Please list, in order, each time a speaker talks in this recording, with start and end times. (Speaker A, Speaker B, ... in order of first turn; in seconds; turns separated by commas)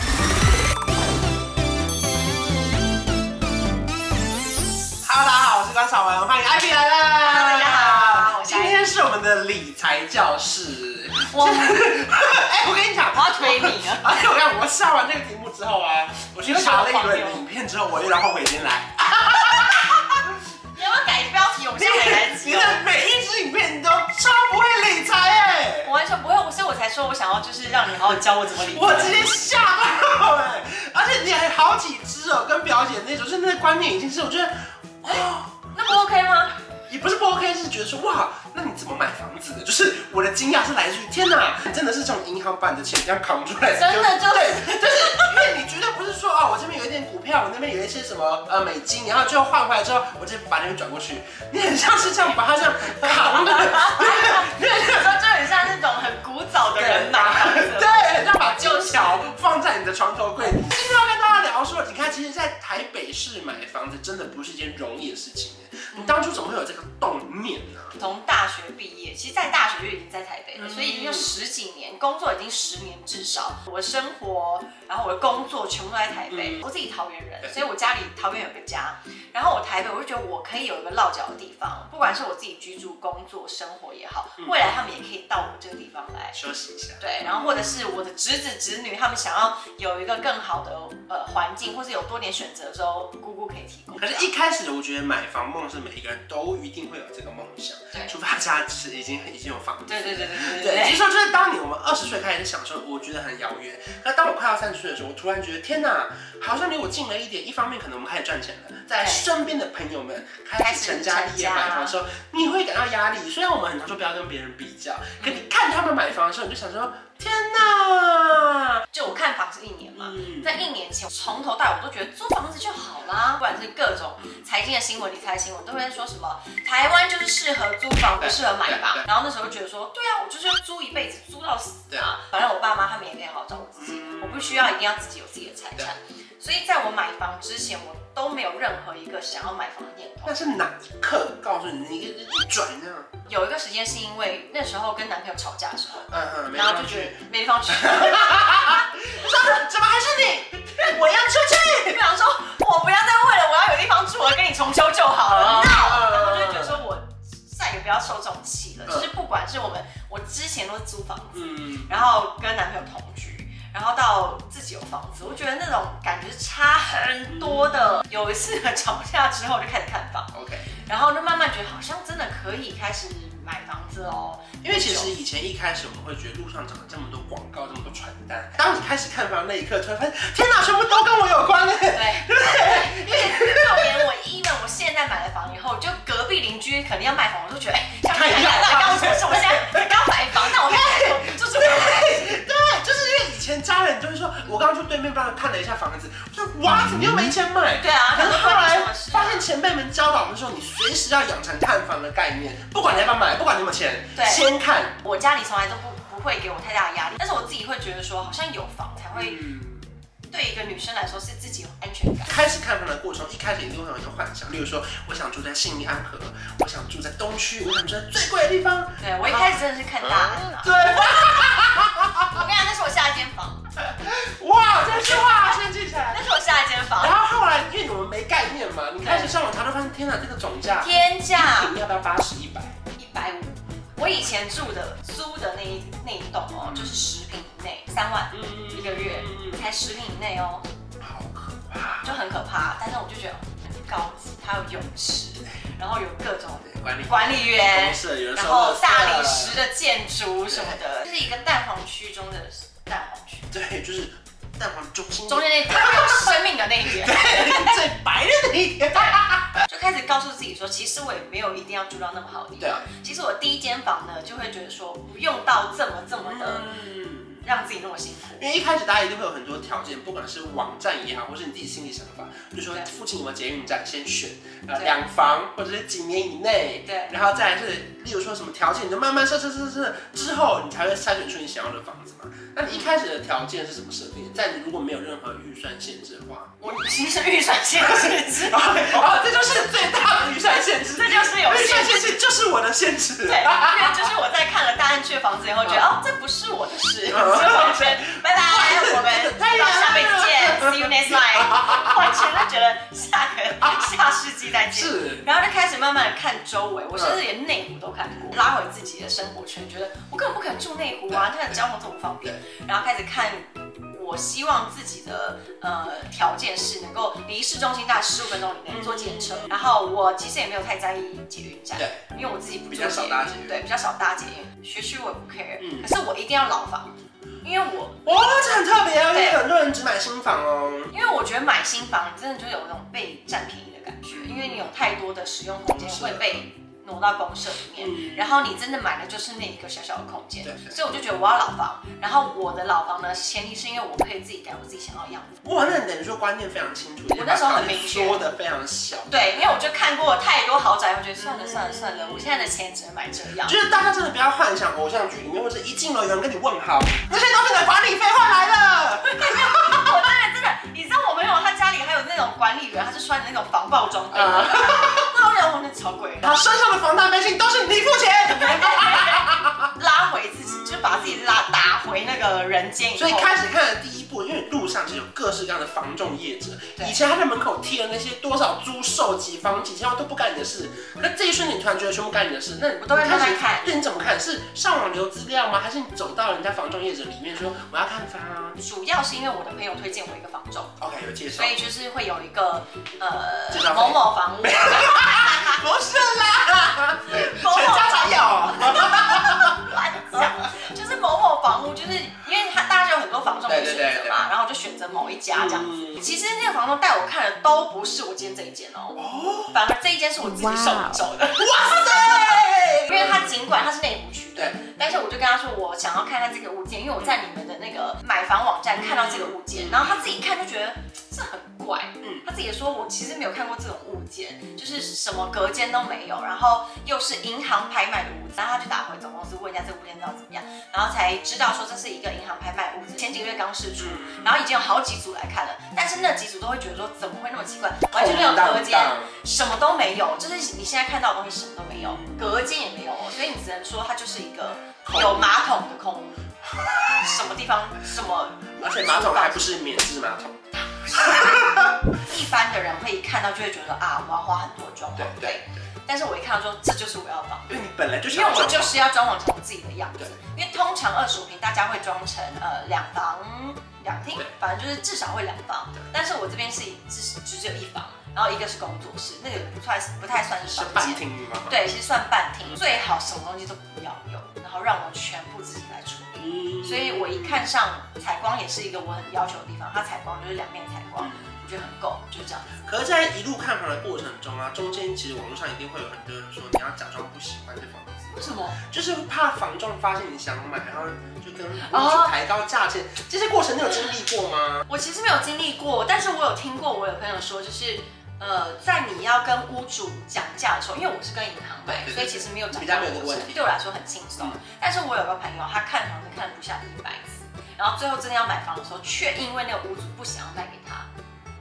Speaker A: 5.0-20.4, Speaker B: 7.2-8.9, Speaker B: 11.2-11.9, Speaker B: 13.1-14.1, Speaker B: 16.4-17.4, Speaker B: 19.3-20.2, Speaker B: 20.7-22.8, Speaker A: 21.7-25.9, Speaker B: 25.8-29.2, Speaker A: 28.6-35.7, Speaker B: 35.0-36.5, Speaker A: 36.9-55.0, Speaker B: 43.7-45.5, Speaker B: 52.0-52.3, Speaker B: 52.8-59.3, Speaker A: 56.7-68.0, Speaker B: 60.4-60.7, Speaker B: 65.9-66.2, Speaker B: 68.0-86.4, Speaker A: 70.6-71.3, Speaker A: 76.3-76.6, Speaker A: 86.3-87.8, Speaker B: 87.0-94.3, Speaker A: 94.0-118.8, Speaker B: 99.9-101.0, Speaker B: 109.0-109.2, Speaker B: 110.6-111.9, Speaker B: 115.2-115.5, Speaker B: 118.9-140.4, Speaker A: 120.0-120.5, Speaker A: 128.2-129.1, Speaker A: 133.8-134.7, Speaker A: 140.2-143.1, Speaker B: 143.3-149.5, Speaker A: 146.1-152.0, Speaker B: 151.7-170.3, Speaker A: 155.3-156.8, Speaker A: 161.3-161.9, Speaker A: 167.3-167.7, Speaker A: 170.3-170.7, Speaker B: 170.8-175.1, Speaker A: 174.6-184.1, Speaker B: 181.9-192.3, Speaker A: 188.1-205.0, Speaker B: 197.8-199.5, Speaker B: 204.1-204.5, Speaker B: 205.0-209.4, Speaker A: 209.1-209.9, Speaker B: 210.3-212.4, Speaker A: 212.2-219.6, Speaker B: 219.0-221.4, Speaker A: 220.3-222.4, Speaker B: 222.3-223.7, Speaker A: 223.8-226.2, Speaker B: 224.7-227.2, Speaker A: 227.0-232.8, Speaker B: 229.0-229.4, Speaker B: 230.8-231.8, Speaker B: 232.9-240.7, Speaker A: 236.6-237.1, Speaker A: 238.3-239.6, Speaker A: 241.0-242.2, Speaker B: 242.0-253.5, Speaker A: 246.6-249.6, Speaker A: 250.5-250.8, Speaker A: 253.5-256.3, Speaker B: 255.3-257.8, Speaker A: 256.9-259.6, Speaker B: 258.9-266.7, Speaker A: 262.6-262.9, Speaker A: 266.2-267.4, Speaker B: 267.4-268.4, Speaker A: 268.4-286.6, Speaker B: 276.8-277.1, Speaker B: 286.6-289.2, Speaker A: 287.8-294.0, Speaker B: 290.2-292.2, Speaker B: 293.2-328.4, Speaker A: 297.1-302.3, Speaker A: 303.6-303.9, Speaker A: 304.7-305.2, Speaker A: 306.9-307.2, Speaker A: 318.7-319.6, Speaker A: 321.8-322.0, Speaker A: 322.6-323.6, Speaker A: 325.6-325.9, Speaker A: 328.0-330.9, Speaker B: 329.1-329.4, Speaker B: 330.9-345.4, Speaker A: 334.1-334.7, Speaker A: 335.7-336.5, Speaker A: 337.8-338.3, Speaker A: 340.4-340.8, Speaker A: 345.4-349.4, Speaker B: 347.1-348.2, Speaker B: 349.1-353.6, Speaker A: 351.2-352.5, Speaker A: 353.4-359.9, Speaker B: 359.0-366.3, Speaker A: 364.1-365.1, Speaker A: 366.2-369.7, Speaker B: 368.3-373.4, Speaker A: 370.4-371.3, Speaker A: 372.9-388.6, Speaker B: 382.8-383.7, Speaker B: 388.6-390.8, Speaker A: 390.8-391.6, Speaker B: 391.3-395.7, Speaker A: 393.5-400.4, Speaker B: 397.1-446.2, Speaker A: 403.5-404.3, Speaker A: 405.3-406.0, Speaker A: 408.9-409.6, Speaker A: 411.4-413.3, Speaker A: 418.7-420.1, Speaker A: 433.8-434.4, Speaker A: 437.9-439.1, Speaker A: 441.7-442.4, Speaker A: 444.8-445.3, Speaker A: 446.5-447.1, Speaker B: 447.0-449.7, Speaker A: 448.5-451.9, Speaker B: 450.9-451.4, Speaker B: 451.9-457.6, Speaker A: 454.9-455.6, Speaker A: 457.5-458.9, Speaker B: 458.1-482.5, Speaker A: 470.5-471.6, Speaker A: 476.2-477.4, Speaker A: 481.0-481.4, Speaker A: 482.6-494.6, Speaker B: 488.1-488.5, Speaker B: 491.6-492.1, Speaker B: 494.7-510.9, Speaker A: 501.6-503.4